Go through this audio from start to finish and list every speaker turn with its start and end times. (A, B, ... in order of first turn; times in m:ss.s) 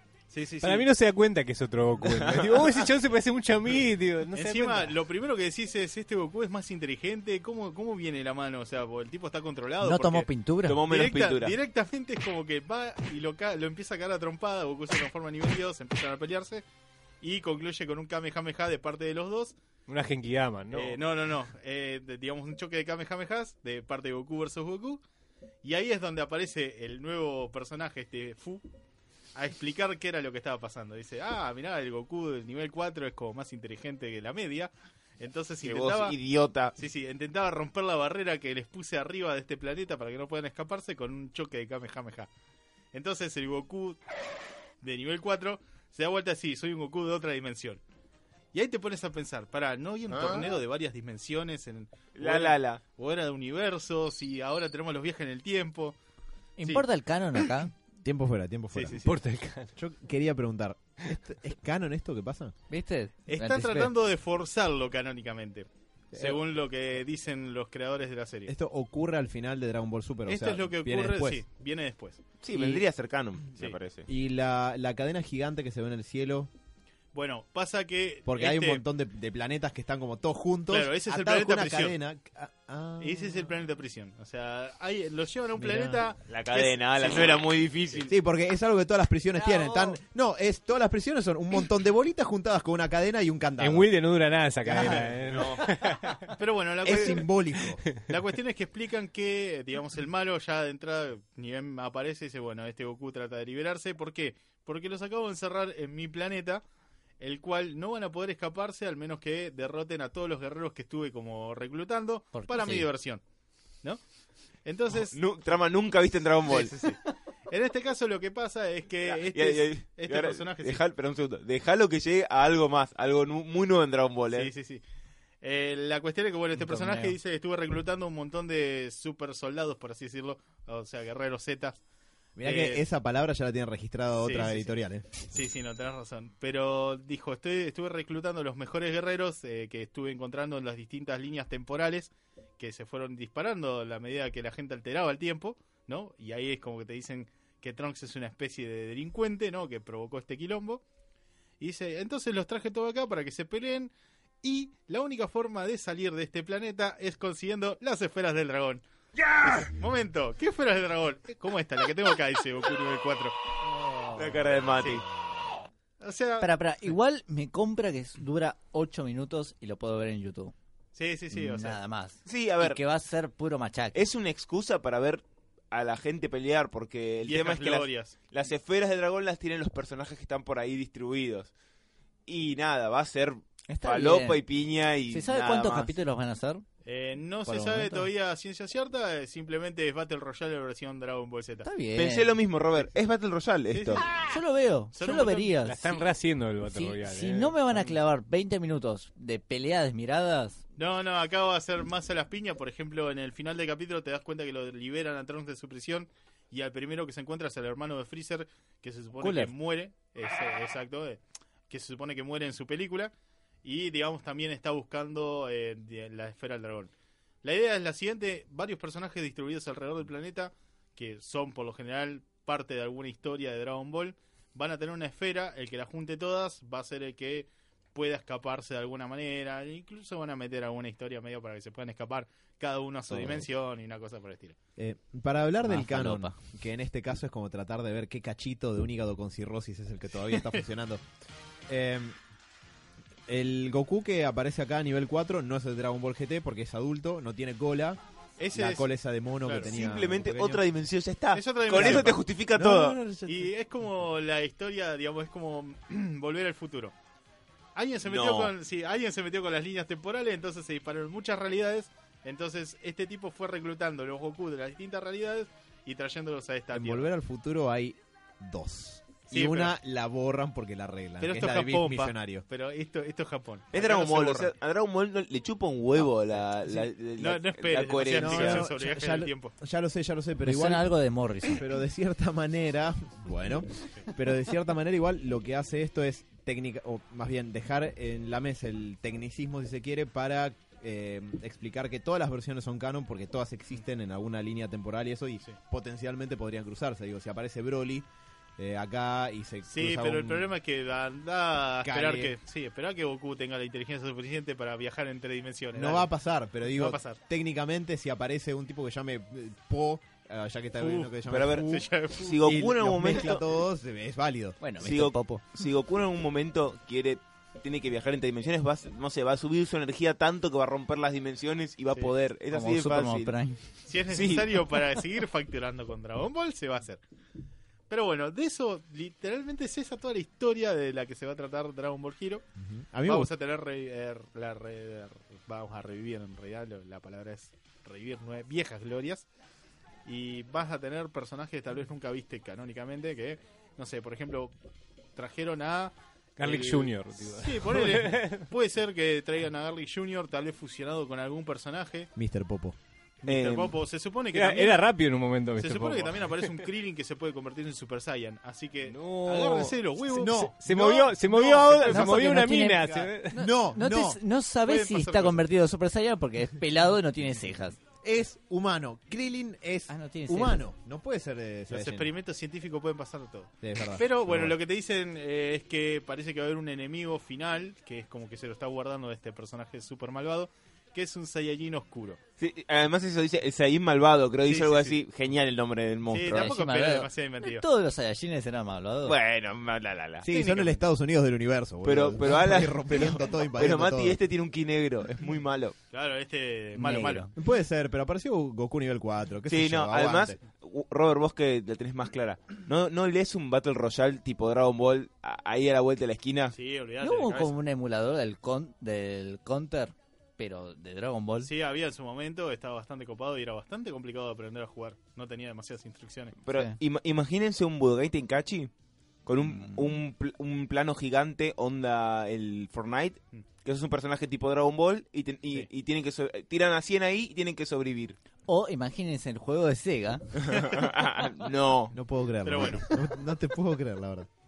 0:00.3-0:00.9 A
0:00.6-0:04.9 B
0:02.0-0:02.8 C
0:04.3-0:10.3 A
0:09.8-0:10.8 D
0:10.6-0:11.6 C
0:10.8-0:16.6 A
0:17.2-0:19.6 A
0:19.9-0:21.0 B
0:20.7-0:25.0 A
0:25.6-0:28.6 A
0:29.3-0:36.1 A
0:35.6-0:36.7 C
0:36.7-0:42.3 A
0:42.9-0:44.0 A
0:44.8-0:47.8 A
0:48.5-0:56.0 A
0:50.1-0:50.5 C
0:52.2-0:52.8 C
0:56.6-0:57.7 D
0:57.9-0:59.0 E
0:58.7-0:59.1 A
0:59.0-0:59.7 B
0:59.8-1:02.5 E
1:02.7-1:03.9 D
1:03.3-1:08.5 A
1:08.4-1:11.4 E
1:10.2-1:12.2 A
1:12.4-1:14.0 C
1:14.1-1:16.5 E
1:17.1-1:18.8 A
1:18.2-1:23.5 E
1:20.7-1:22.0 A
1:23.0-1:28.0 A
1:25.6-1:26.0 E
1:26.3-1:28.1 C
1:28.0-1:33.9 E
1:29.5-1:29.9 D
1:33.6-1:36.2 B
1:34.6-1:35.8 E
1:35.3-1:35.6 C
1:36.3-1:37.3 A
1:36.8-1:37.8 E
1:38.0-1:46.6 A
1:47.2-1:53.2 A
1:52.3-1:52.9 D
1:54.6-1:55.2 A
1:55.0-1:56.7 C
1:56.5-2:00.8 A
1:59.0-2:04.5 C
2:04.3-2:04.8 A
2:05.4-2:11.8 A
2:06.6-2:07.2 D
2:12.4-2:15.0 E
2:12.4-2:12.8 A
2:14.2-2:30.8 A
2:31.6-2:38.8 A
2:39.3-2:45.0 A
2:44.2-2:45.0 C
2:46.0-2:46.5 A
2:46.4-2:50.5 D
2:50.9-2:51.8 A
2:51.3-2:54.0 D
2:52.2-2:52.8 C
2:53.9-3:01.5 C
2:57.2-2:58.1 A
3:02.2-3:05.9 C
3:03.7-3:04.4 D
3:05.1-3:06.6 D
3:06.8-3:11.7 A
3:07.4-3:08.1 D
3:11.6-3:12.3 D
3:11.9-3:14.0 C
3:13.7-3:14.0 A
3:14.0-3:16.0 D
3:14.9-3:15.7 A
3:15.6-3:17.6 B
3:16.7-3:20.6 D
3:20.8-3:33.1 A
3:29.2-3:29.5 D
3:33.6-3:36.9 A
3:37.4-3:54.6 A
3:53.1-3:53.4 E
3:54.8-4:01.0 E
3:55.6-3:56.4 D
4:00.3-4:00.6 A
4:01.7-4:02.2 E
4:03.3-4:08.0 E
4:08.4-4:08.9 A
4:08.5-4:10.6 E
4:09.4-4:09.7 A
4:09.6-4:13.0 C
4:11.3-4:12.2 A
4:11.7-4:13.5 E
4:13.2-4:16.9 A
4:17.8-4:27.1 A
4:18.0-4:18.5 C
4:26.7-4:32.4 E
4:29.3-4:29.8 A
4:31.2-4:34.5 A
4:33.7-4:38.7 C
4:37.2-4:39.5 A
4:38.0-4:40.9 E
4:40.4-4:41.6 D
4:41.4-5:00.5 E
4:59.6-5:06.1 A
5:01.8-5:02.3 E
5:05.7-5:11.8 E
5:06.6-5:07.2 A
5:10.8-5:12.7 A
5:11.3-5:13.4 C
5:12.4-5:14.6 E
5:14.6-5:15.4 D
5:14.8-5:23.4 C
5:22.5-5:23.6 D
5:23.8-5:27.0 A
5:24.1-5:24.5 C
5:27.9-5:32.4 A
5:32.6-5:33.3 E
5:33.0-5:39.2 A
5:40.0-5:44.5 A
5:45.2-5:52.1 A
5:46.4-5:48.4 B
5:52.1-5:52.8 E
5:53.2-5:54.9 A
5:53.2-5:53.8 C
5:54.3-5:56.6 B
5:55.6-6:00.5 A
5:58.8-6:03.4 B
6:00.1-6:04.2 E
6:01.3-6:02.0 A
6:01.8-6:07.8 D
6:04.6-6:05.4 A
6:08.0-6:12.1 E
6:09.9-6:10.6 D
6:11.7-6:22.2 A
6:13.6-6:14.5 E
6:22.4-6:26.5 C
6:24.4-6:25.0 A
6:26.1-6:27.6 A
6:26.3-6:29.2 D
6:29.0-6:30.3 C
6:30.2-6:34.2 E
6:30.3-6:30.8 A
6:31.8-6:35.8 C
6:35.9-6:37.3 A
6:36.8-6:37.3 D
6:37.3-6:40.4 E
6:39.5-6:46.5 C
6:46.5-6:47.5 A
6:47.0-6:51.5 D
6:51.4-6:56.6 A
6:56.4-6:58.7 C
6:59.2-7:08.2 C
6:59.4-6:59.9 D
7:08.5-7:10.3 D
7:10.4-7:12.0 C
7:11.9-7:14.3 E
7:12.4-7:12.8 A